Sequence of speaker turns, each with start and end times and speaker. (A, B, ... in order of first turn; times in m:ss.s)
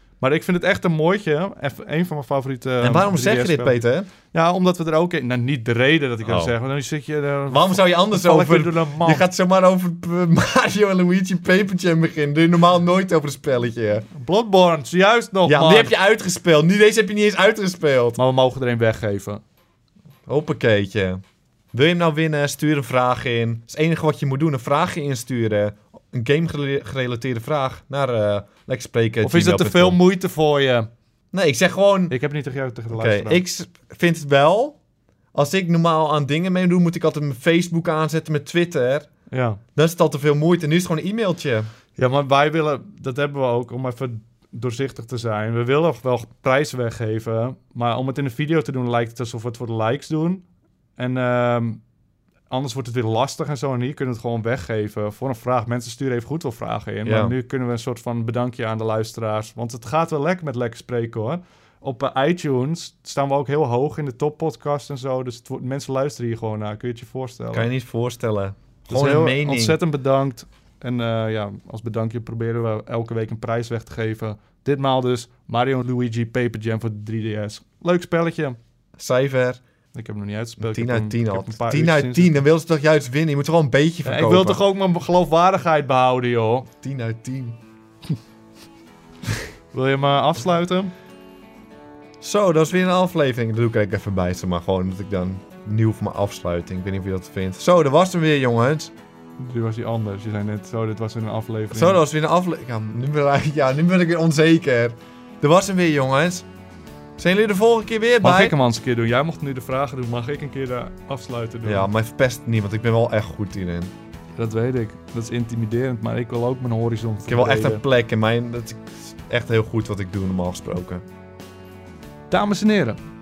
0:00.2-0:09.2 A
0:02.8-0:04.1 B
0:06.2-0:06.5 B
0:07.5-0:14.0 B
0:14.1-0:15.9 A
0:15.4-0:18.2 B
0:18.2-0:19.4 A
0:20.3-0:21.2 B
0:21.7-0:30.0 B
0:29.2-0:30.9 A
0:31.3-0:32.1 B
0:32.1-0:33.4 A
0:32.9-0:34.8 B
0:35.3-0:39.1 B
0:39.3-0:39.6 A
0:39.7-0:41.7 B
0:42.0-0:50.4 A
0:51.0-0:51.8 A
0:52.5-1:07.7 A
0:57.0-0:57.3 B
1:07.5-1:09.8 B
1:08.9-1:18.6 A
1:19.0-1:19.6 B
1:19.9-1:22.3 A
1:20.6-1:24.6 B
1:24.0-1:26.7 A
1:26.8-1:27.6 B
1:29.7-1:30.9 A
1:32.2-1:38.9 B
1:39.4-1:42.0 A
1:41.7-1:46.4 B
1:47.2-1:48.5 B
1:48.2-1:51.9 A
1:51.6-1:53.9 B
1:54.4-1:57.8 A
1:57.2-2:01.0 B
2:02.3-2:03.0 A